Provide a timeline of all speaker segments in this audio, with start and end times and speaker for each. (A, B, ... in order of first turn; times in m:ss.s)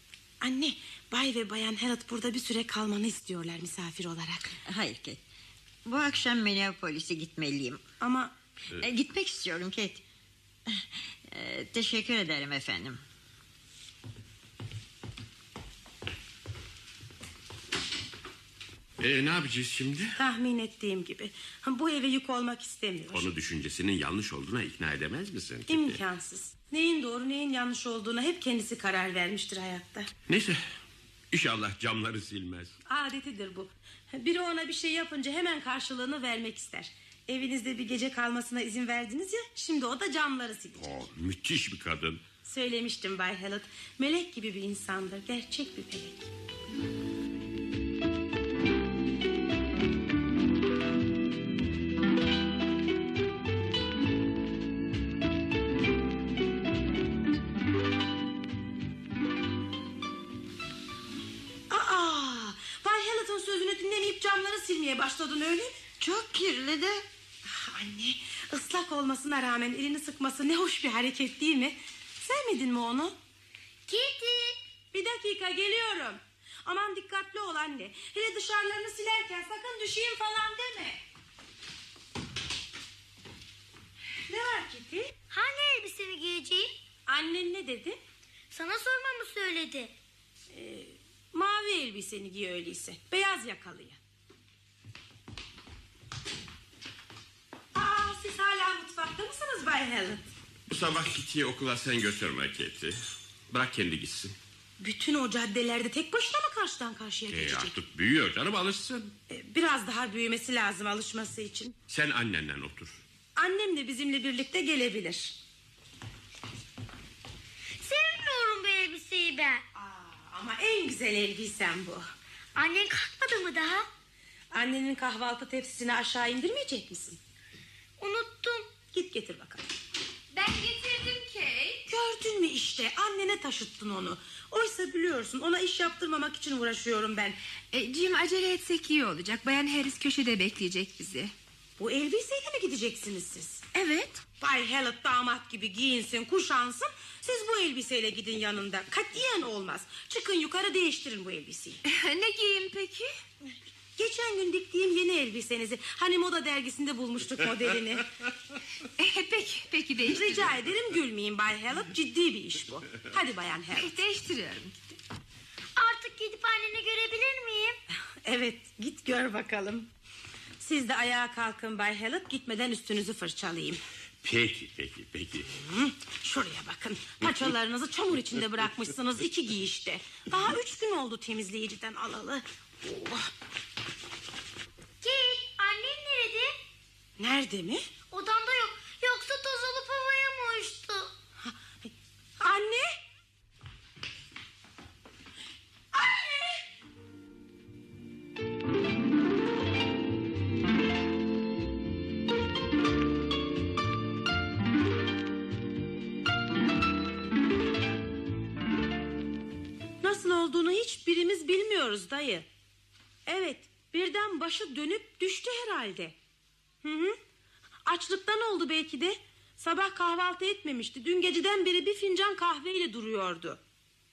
0:00.4-0:04.5 A
0:04.7-0:05.2 B
0:05.8-0:07.8 B
0:08.0-0:08.3 A
0:08.8-0:10.0 B
0:10.7-0:13.0 B
0:19.0-0:20.2 C
0:20.2-0:23.3 A
0:23.1-0:26.0 C
0:25.7-0:30.1 A
0:30.3-0:30.7 C
0:31.3-0:32.8 C
0:32.9-0:40.9 A
0:40.8-0:42.2 C
0:42.4-0:46.3 A
1:01.7-1:05.7 A
1:06.0-1:07.0 B
1:07.5-1:13.2 A
1:13.9-1:14.6 D
1:14.9-1:21.0 A
1:24.3-1:25.1 A
1:25.3-1:26.7 D
1:27.1-1:28.0 A
1:28.5-1:29.9 D
1:30.5-1:34.0 A
1:37.8-1:40.2 A
1:40.7-1:43.0 C
1:43.5-1:44.4 C
1:44.8-1:47.7 A
1:47.3-1:49.2 C
1:49.3-1:51.8 A
1:51.9-1:53.0 C
1:53.4-1:55.4 A
1:57.8-1:59.6 D
1:59.8-2:02.0 A
2:02.6-2:03.9 D
2:04.5-2:07.2 A
2:08.0-2:08.7 D
2:08.9-2:09.7 A
2:10.3-2:11.8 E
2:11.9-2:17.4 A
2:17.7-2:21.3 E
2:21.8-2:23.7 A
2:23.7-2:24.2 E
2:24.4-2:31.8 A
2:31.8-2:33.1 E
2:34.0-2:38.1 A
2:39.0-2:40.6 E
2:40.1-2:44.0 A
2:43.8-2:44.8 E
2:45.8-2:47.8 D
2:48.2-2:49.9 A
2:50.6-2:53.8 A
2:54.2-2:55.5 C
2:55.6-3:03.3 A
3:05.0-3:06.6 D
3:07.2-3:07.9 A
3:08.1-3:11.1 D
3:11.4-3:12.9 A
3:15.9-3:16.6 A
3:30.0-3:32.5 A
3:33.3-3:36.2 A
3:36.8-3:37.2 A
3:37.9-3:43.6 A